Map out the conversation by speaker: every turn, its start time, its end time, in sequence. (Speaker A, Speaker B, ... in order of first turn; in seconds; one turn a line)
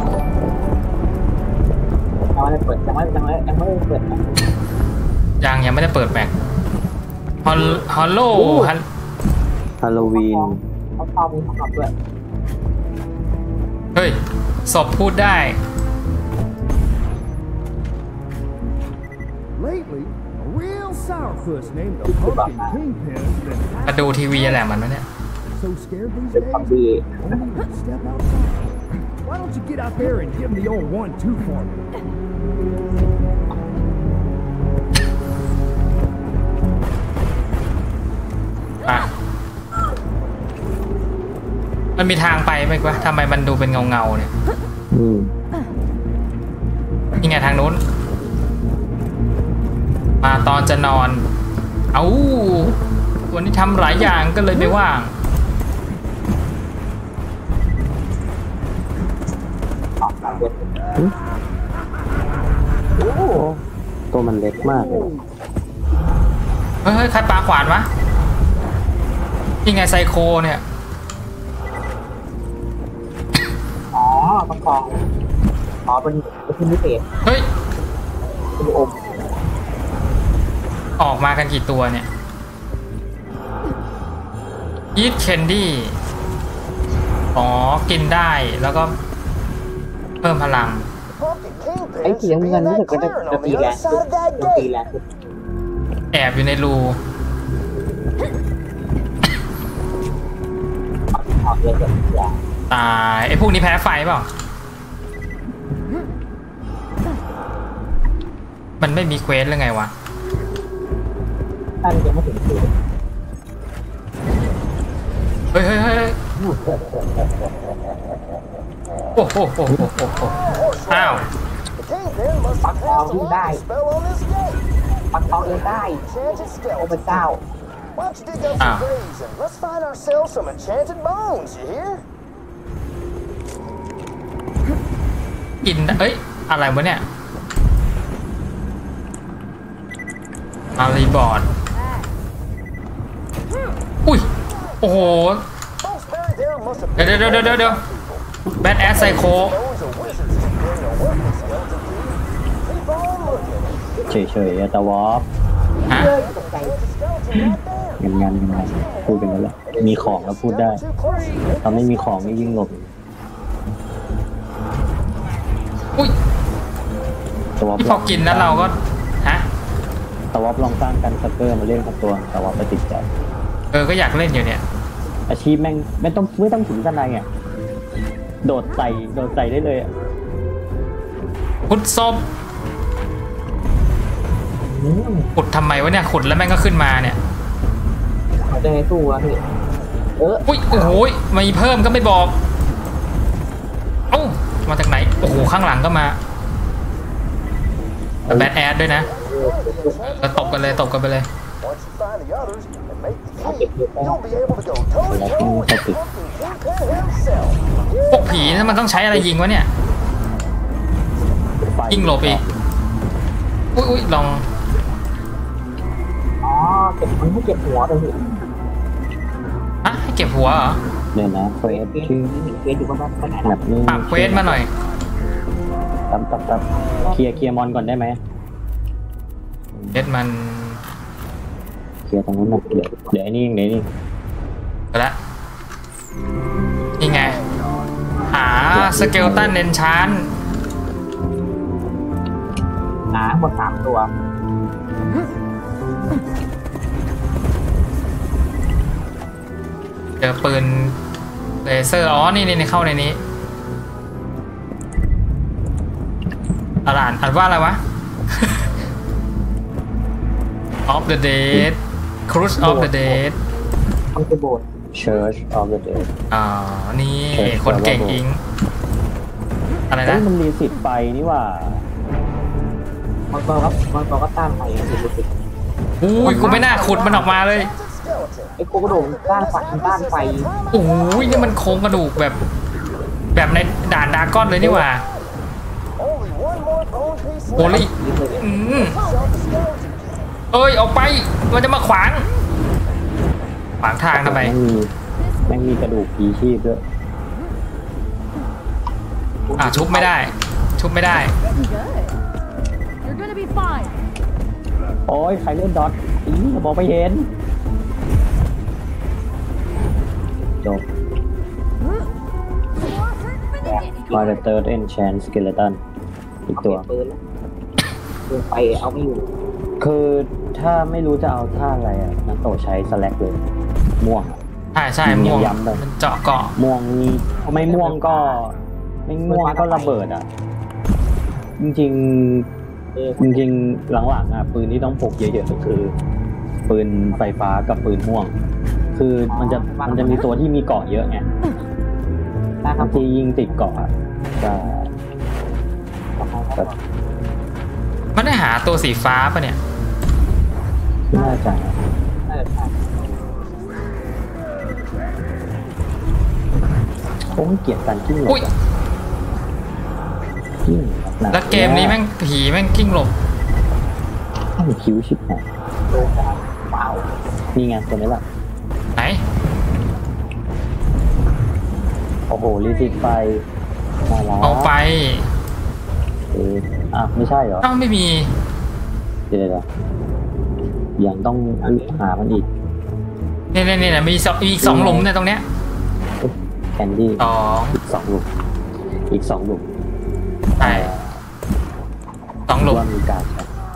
Speaker A: 2.3-4.2
Speaker B: 5.4-6.3
Speaker B: 7.4-8.8
Speaker C: 8.3-8.7
Speaker C: 9.8-10.6
Speaker A: 10.0-11.9
Speaker B: 13.9-15.6
Speaker D: 19.6-24.8
Speaker A: 22.0-22.8
Speaker B: 23.9-25.0
Speaker D: 25.6-28.7
Speaker A: 26.3-27.4
Speaker D: 29.2-31.9
Speaker B: 42.0-44.3
Speaker C: 44.9-45.3
Speaker B: 47.2-47.8
Speaker B: 50.2-51.2
Speaker B: 51.9-52.8
Speaker B: 53.3-55.1
Speaker A: 60.0-60.8
Speaker A: 63.0-63.4
Speaker C: 63.3-65.1
Speaker B: 66.8-67.9
Speaker B: 69.6-70.6
Speaker A: 73.9-75.0
Speaker A: 75.8-77.0
Speaker A: 78.6-79.1
Speaker B: 81.0-82.1
Speaker B: 84.9-85.9
Speaker B: 87.3-88.9
Speaker B: 90.2-90.9
Speaker E: 91.2-94.7
Speaker A: 92.0-95.0
Speaker B: 96.1-97.0
Speaker A: 101.1-102.4
Speaker B: 102.7-104.3
Speaker B: 108.8-109.9
Speaker A: 111.8-112.7
Speaker B: 115.5-116.2
Speaker B: 119.2-120.3
Speaker E: 120.2-124.6
Speaker B: 120.9-121.2
Speaker A: 122.6-123.6
Speaker A: 125.1-127.5
Speaker E: 125.3-127.3
Speaker E: 128.0-132.0
Speaker B: 128.6-128.8
Speaker B: 135.6-137.0
Speaker B: 140.8-141.5
Speaker E: 144.4-145.3
Speaker B: 144.8-145.4
Speaker E: 145.8-148.2
Speaker B: 147.0-147.8
Speaker B: 148.6-149.6
Speaker E: 148.8-153.9
Speaker C: 154.1-155.3
Speaker B: 155.9-156.1
Speaker A: 155.9-156.8
Speaker E: 156.0-162.6
Speaker C: 158.0-160.8
Speaker A: 159.7-160.1
Speaker C: 161.6-162.9
Speaker C: 167.6-168.7
Speaker B: 167.8-169.4
Speaker C: 170.3-173.1
Speaker B: 173.7-174.6
Speaker C: 175.3-177.3
Speaker C: 178.4-179.9
Speaker B: 181.7-182.2
Speaker A: 184.7-185.3
Speaker B: 185.3-187.2
Speaker A: 188.4-189.4
Speaker A: 190.2-191.0
Speaker B: 190.5-192.3
Speaker B: 194.1-196.2
Speaker C: 198.2-198.5
Speaker B: 198.3-199.1
Speaker E: 198.8-201.0
Speaker A: 199.1-200.0
Speaker B: 200.2-201.3
Speaker E: 201.6-209.3
Speaker A: 203.4-204.4
Speaker C: 205.1-206.0
Speaker B: 208.1-209.7
Speaker C: 211.6-212.6
Speaker B: 211.9-212.4
Speaker B: 213.7-214.4
Speaker A: 216.4-218.2
Speaker B: 219.8-220.8
Speaker C: 221.1-222.3
Speaker A: 221.6-223.6
Speaker C: 223.4-224.6
Speaker B: 223.9-224.7
Speaker C: 226.1-228.2
Speaker A: 227.0-227.5
Speaker C: 229.7-230.0
Speaker B: 229.9-230.8
Speaker C: 232.1-233.9
Speaker A: 232.5-233.1
Speaker B: 237.0-237.4
Speaker B: 238.3-240.3
Speaker C: 238.7-239.6
Speaker A: 243.1-244.1
Speaker B: 250.2-250.9
Speaker B: 251.6-253.2
Speaker B: 256.9-257.8
Speaker B: 258.3-258.6
Speaker B: 260.9-263.4
Speaker A: 262.6-263.2
Speaker A: 264.1-264.6
Speaker C: 264.9-266.1
Speaker B: 266.3-268.4
Speaker C: 267.3-268.2
Speaker B: 269.9-270.2
Speaker C: 270.0-271.8
Speaker A: 273.3-275.3
Speaker B: 276.0-277.7
Speaker E: 276.2-282.1
Speaker C: 276.2-276.7
Speaker A: 276.2-276.6
Speaker A: 278.6-280.5
Speaker B: 280.7-282.4
Speaker B: 283.3-285.0
Speaker E: 284.6-285.2
Speaker E: 286.0-287.9
Speaker B: 287.6-289.0
Speaker A: 287.6-288.5
Speaker E: 288.7-290.3
Speaker B: 290.5-292.2
Speaker B: 293.8-294.5
Speaker C: 294.1-294.9
Speaker F: 295.2-295.5
Speaker C: 295.4-296.8
Speaker A: 299.5-300.2
Speaker B: 299.6-301.3
Speaker F: 301.5-302.2
Speaker F: 303.0-304.0
Speaker C: 305.1-307.3
Speaker C: 310.6-310.8
Speaker F: 313.5-314.1
Speaker A: 313.6-314.4
Speaker C: 314.1-315.8
Speaker C: 316.5-316.8
Speaker A: 316.5-317.2
Speaker A: 318.3-319.3
Speaker C: 319.8-323.4
Speaker C: 324.0-324.4
Speaker B: 324.7-326.5
Speaker C: 325.0-325.8
Speaker C: 326.6-328.5
Speaker A: 327.4-328.5
Speaker C: 329.1-330.3
Speaker A: 329.2-330.0
Speaker C: 331.6-332.5
Speaker A: 332.9-333.5
Speaker C: 333.2-335.9
Speaker C: 336.7-338.3
Speaker A: 337.1-337.4
Speaker C: 338.9-341.2
Speaker A: 339.3-340.3
Speaker A: 342.6-343.9
Speaker C: 342.8-344.9
Speaker A: 346.2-346.8
Speaker B: 348.1-349.6
Speaker C: 351.1-351.8
Speaker A: 351.1-351.4
Speaker A: 352.3-352.7
Speaker C: 357.3-358.5
Speaker C: 360.6-362.0
Speaker B: 361.3-363.1
Speaker C: 364.6-365.4
Speaker A: 365.9-367.1
Speaker C: 367.5-368.2
Speaker B: 368.9-369.2
Speaker C: 372.3-373.4
Speaker C: 374.1-374.7
Speaker B: 374.4-375.2
Speaker C: 376.3-377.7
Speaker B: 377.6-378.3
Speaker C: 379.3-379.6
Speaker C: 381.0-382.5
Speaker A: 381.6-382.1
Speaker B: 383.5-385.4
Speaker C: 384.6-385.1
Speaker C: 386.2-388.3
Speaker B: 387.2-387.8
Speaker C: 389.1-389.7
Speaker C: 390.6-391.2
Speaker B: 390.6-390.9
Speaker B: 392.5-392.8
Speaker C: 392.6-393.5